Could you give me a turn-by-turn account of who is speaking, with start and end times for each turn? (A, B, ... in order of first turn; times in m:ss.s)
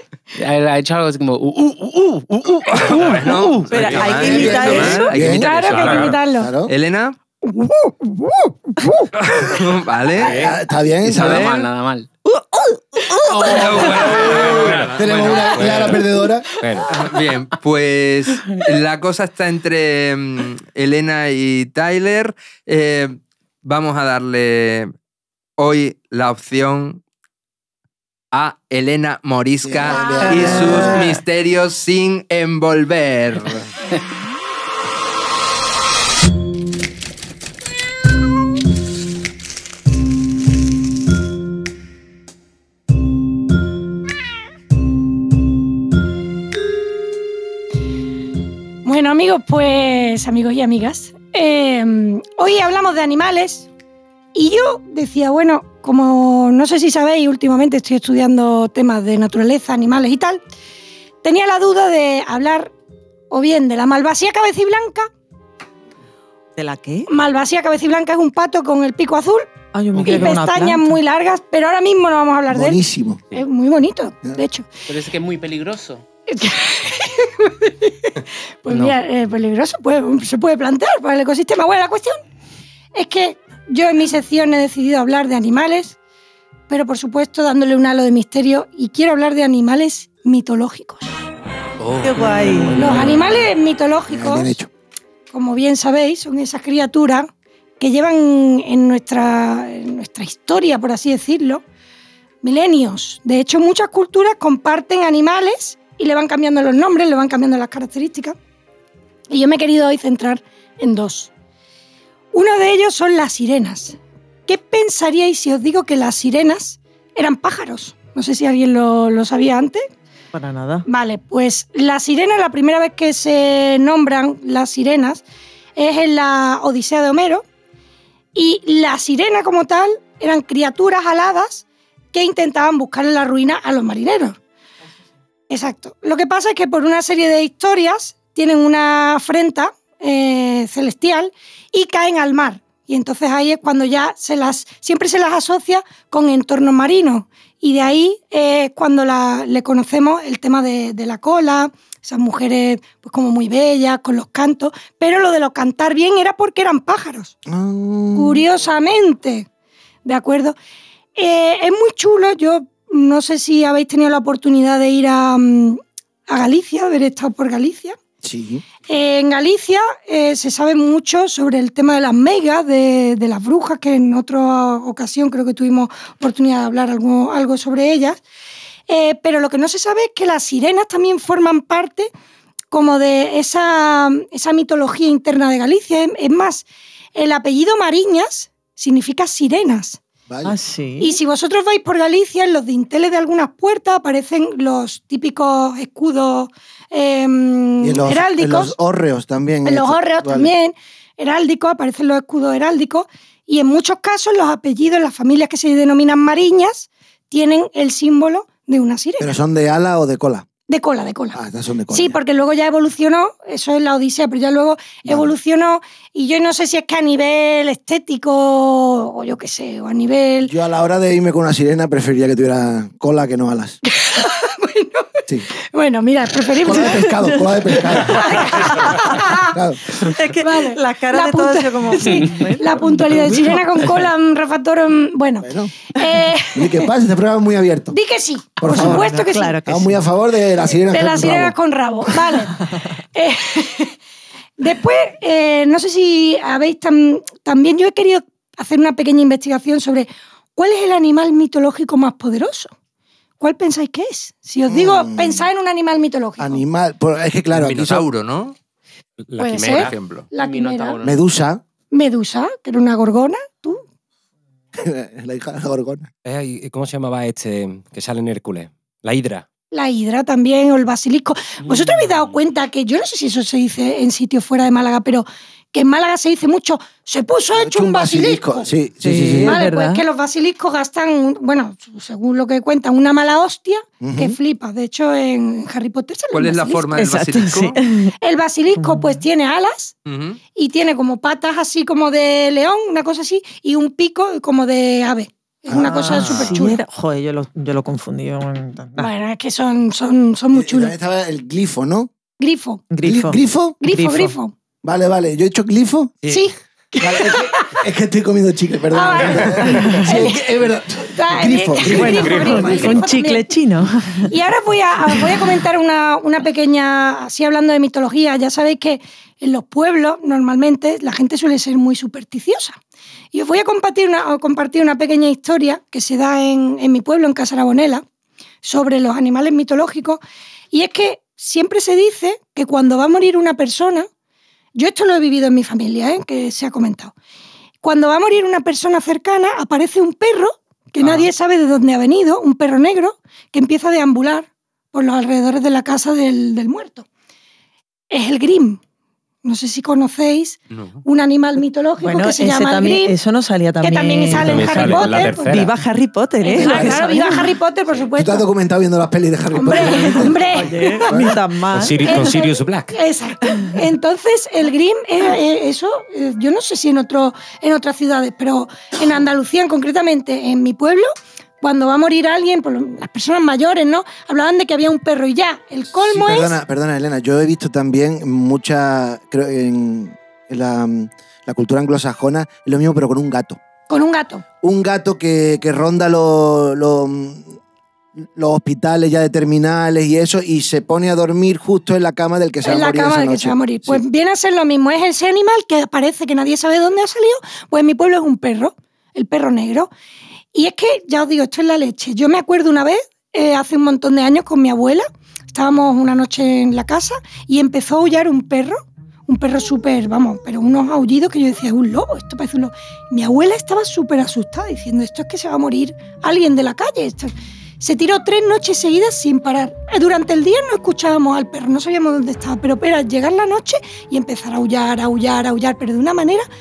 0:00.4-0:06.1 A
0:02.7-0:06.1 B
0:03.3-0:05.4 C
0:04.2-0:05.5 D
0:05.3-0:06.5 E
0:05.6-0:06.2 F
0:06.3-0:06.7 D
0:06.7-0:07.2 B
0:07.5-0:08.2 E
0:09.2-0:10.4 B
0:10.2-0:10.6 F
0:10.2-0:11.5 D
0:11.0-0:11.7 B
0:11.1-0:12.1 A
0:12.2-0:14.2 C
0:13.4-0:16.0 B
0:13.7-0:16.5 D
0:13.9-0:16.9 F
0:16.9-0:24.9 B
0:25.6-0:27.0 B
0:28.3-0:33.7 B
0:29.6-0:31.1 D
0:48.8-0:53.7 E
0:54.3-1:00.4 E
1:01.2-1:02.7 E
1:03.3-1:05.1 E
1:06.6-1:07.1 C
1:07.1-1:14.7 E
1:09.7-1:11.0 C
1:10.0-1:10.3 A
1:12.5-1:13.2 D
1:14.9-1:16.0 A
1:16.3-1:18.1 E
1:18.6-1:22.2 E
1:18.7-1:19.0 A
1:23.0-1:26.0 E
1:26.7-1:31.2 E
1:31.9-1:33.2 A
1:32.0-1:33.0 C
1:32.7-1:34.6 E
1:34.1-1:34.7 D
1:35.3-1:37.3 E
1:37.8-1:41.6 E
1:42.4-1:48.4 E
1:49.3-1:51.3 E
1:52.3-1:59.8 E
2:00.3-2:00.9 C
2:00.9-2:05.2 E
2:05.8-2:07.4 E
2:08.3-2:14.4 E
2:15.5-2:37.4 E
2:37.5-2:38.4 D
2:38.2-2:39.5 E
2:40.0-2:40.6 E
2:41.2-2:48.0 E
2:48.2-2:48.6 D
2:48.9-2:58.2 E
2:58.9-3:02.1 E
3:02.7-3:10.0 E
3:10.3-3:10.6 D
3:10.4-3:11.2 C
3:11.0-3:18.8 E
3:17.8-3:20.5 D
3:19.6-3:29.3 E
3:29.2-3:30.5 D
3:30.7-3:31.4 E
3:31.3-3:32.2 D
3:31.9-3:40.5 E
3:35.1-3:35.3 D
3:40.4-3:43.8 D
3:43.9-3:45.1 E
3:45.7-3:47.5 E
3:46.6-3:48.7 D
3:47.9-3:49.2 C
3:48.0-3:49.5 E
3:49.4-3:49.8 D
3:49.9-3:53.8 C
3:50.4-3:56.9 E
3:55.4-3:55.8 D
3:56.5-3:58.0 D
3:57.9-3:59.6 E
3:58.6-3:59.1 D
3:58.6-4:00.0 C
3:59.6-4:01.6 D
4:00.9-4:04.0 E
4:04.6-4:12.7 E
4:13.4-4:16.6 E
4:14.7-4:15.5 D
4:16.4-4:18.0 D
4:17.5-4:18.6 B
4:19.2-4:20.0 F
4:19.4-4:21.0 E
4:19.6-4:20.3 B
4:20.4-4:21.2 A
4:21.0-4:21.6 D
4:21.9-4:23.8 E
4:24.8-4:26.1 D
4:26.2-4:29.4 F
4:29.7-4:38.7 E
4:31.8-4:32.1 A
4:37.6-4:39.6 D
4:39.0-4:40.0 C
4:39.4-4:47.0 E
4:44.0-4:44.4 D
4:46.3-4:47.8 B
4:47.0-4:48.1 C
4:48.2-4:49.9 E
4:48.8-4:49.2 C
4:50.1-4:50.4 B
4:50.6-4:56.8 E
4:55.7-4:56.5 D
4:55.8-4:59.1 C
4:59.0-5:00.9 E
5:00.5-5:02.1 D
5:02.4-5:02.8 E
5:02.9-5:04.4 C
5:03.0-5:03.8 D
5:03.8-5:04.5 E
5:04.8-5:06.2 D
5:06.2-5:06.5 F
5:06.3-5:07.8 E
5:07.0-5:12.9 D
5:08.9-5:10.4 E
5:09.7-5:10.1 C
5:11.1-5:13.5 E
5:11.9-5:14.3 C
5:12.2-5:12.7 F
5:14.3-5:22.8 E
5:23.3-5:28.0 E
5:28.6-5:30.2 E
5:30.7-5:34.1 E
5:34.8-5:37.1 E
5:37.8-5:47.1 E
5:48.1-5:48.8 E
5:49.4-5:53.2 E
5:50.7-5:51.0 B
5:52.0-5:57.5 C
5:53.8-5:55.6 E
5:54.3-5:55.7 F
5:56.4-5:58.5 E
5:56.6-5:57.0 D
5:58.2-6:01.4 D
5:59.5-6:01.1 E
6:00.1-6:02.4 C
6:01.7-6:02.9 F
6:02.0-6:11.1 E
6:11.6-6:16.6 E
6:15.9-6:23.6 D
6:23.9-6:24.4 E
6:24.6-6:27.6 D
6:28.4-6:34.0 D
6:32.6-6:39.9 E
6:40.5-7:06.5 E